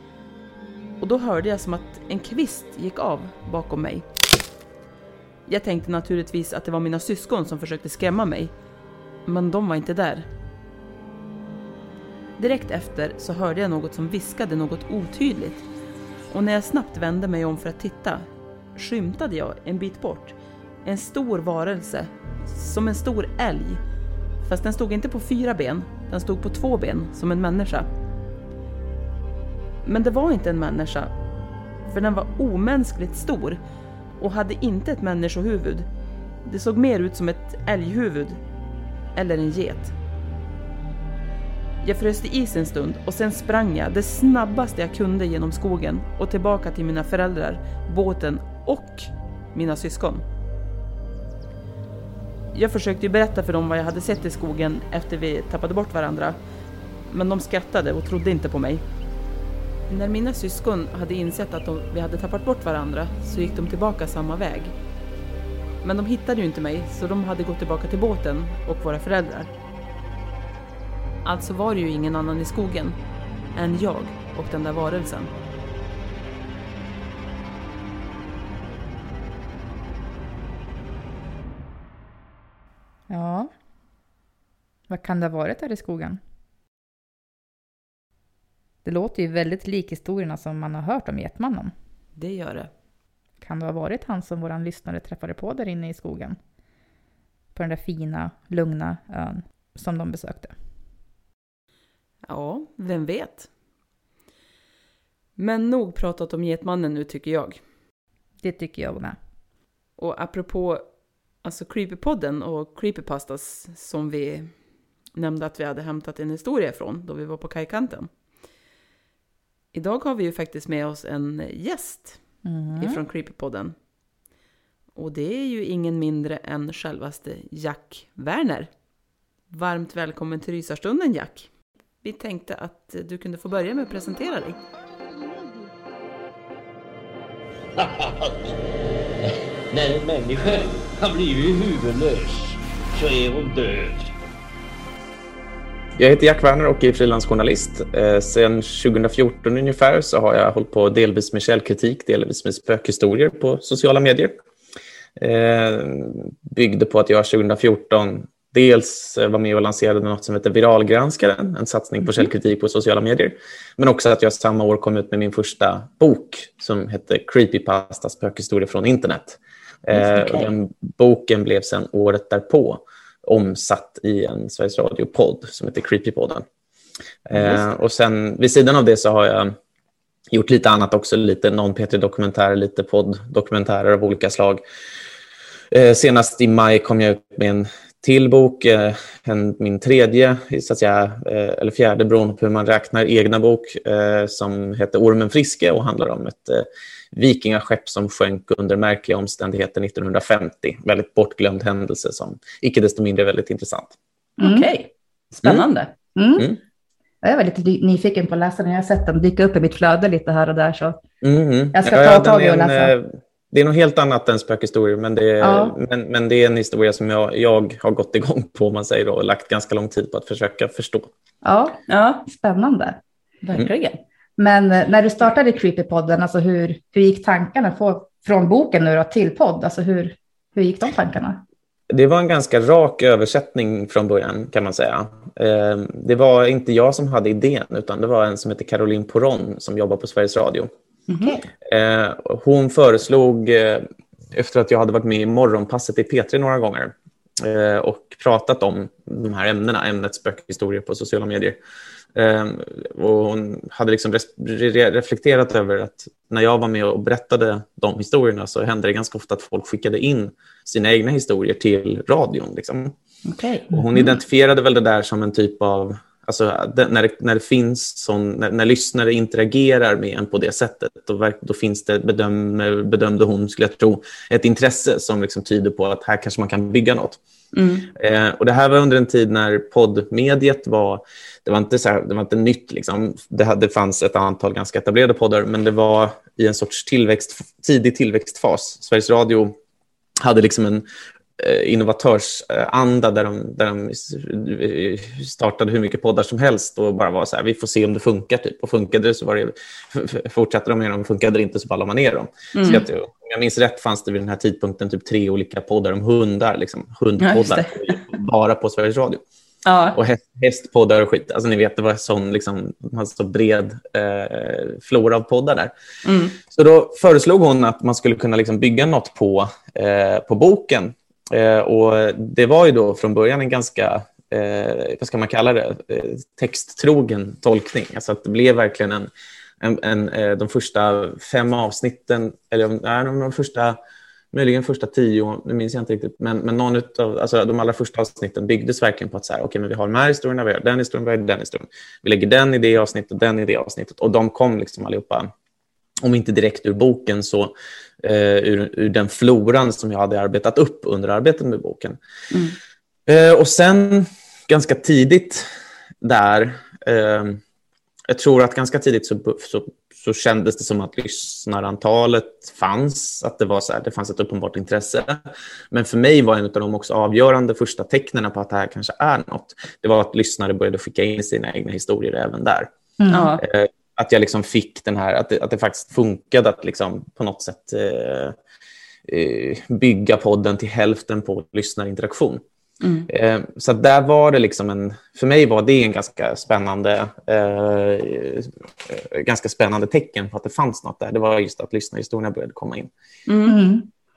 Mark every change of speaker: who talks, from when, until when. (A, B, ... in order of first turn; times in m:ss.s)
0:01.0-0:04.1 A
0:05.5-0:08.5 A
0:09.3-0:10.3 A
0:12.4-0:15.6 A
0:16.3-0:18.2 A
0:18.8-0:23.8 A
0:24.4-0:27.9 A
0:29.8-0:31.1 A
0:31.9-0:33.6 A
0:34.2-0:35.9 A
0:36.4-0:38.4 A
0:39.2-0:39.9 A
0:41.8-0:50.2 A
0:52.5-0:56.4 A
0:57.1-0:58.8 A
0:59.9-1:04.7 A
1:05.8-1:09.5 A
1:11.2-1:13.0 A
1:13.6-1:15.3 A
1:23.1-1:23.5 B
1:24.9-1:26.2 B
1:28.8-1:31.7 B
1:32.2-1:32.7 A
1:33.4-1:36.4 B
1:37.6-1:40.5 B
1:42.3-1:43.5 A
1:45.4-1:47.6 A
1:48.4-1:49.2 B
1:50.0-1:50.8 A
1:51.4-1:54.5 A
1:55.2-1:58.1 A
1:59.7-2:02.2 A
2:02.4-2:03.0 B
2:02.8-2:03.8 A
2:05.0-2:08.7 A
2:09.5-2:11.5 A
2:12.0-2:14.6 A
2:17.8-2:18.4 C
2:19.7-2:24.1 C
2:26.0-2:34.3 D
2:35.2-2:56.4 D
2:57.3-2:59.6 D
3:00.3-3:04.6 D
3:05.7-3:24.0 D
3:24.4-3:24.7 E
3:24.4-3:25.9 A
3:26.2-3:26.5 E
3:27.2-3:31.0 E
3:31.2-3:41.1 D
3:31.7-3:32.9 E
3:35.4-3:35.8 E
3:41.4-3:43.6 E
3:41.9-3:42.2 A
3:43.5-3:44.0 A
3:44.4-3:51.4 E
3:51.9-4:00.7 D
4:01.1-4:01.4 E
4:01.6-4:11.6 D
4:12.2-4:22.9 D
4:23.3-4:24.2 A
4:23.7-4:37.2 D
4:37.5-4:37.9 A
4:38.0-4:49.6 D
4:50.2-4:50.9 D
4:51.4-5:09.2 D
5:02.6-5:02.8 A
5:07.2-5:08.0 A
5:09.6-5:10.0 A
5:09.9-5:15.7 D
5:16.0-5:16.4 A
5:16.5-5:33.8 D
5:34.3-5:45.3 D
5:46.0-5:52.0 D
5:52.3-5:52.6 A
5:53.1-5:55.5 D
5:56.0-5:57.4 D
5:58.1-6:12.7 D
6:13.0-6:13.3 E
6:13.1-6:13.4 A
6:13.4-6:18.4 D
6:19.1-6:22.4 D
6:22.8-6:23.1 A
6:23.1-6:32.9 D
6:33.3-6:33.6 A
6:33.5-6:33.9 E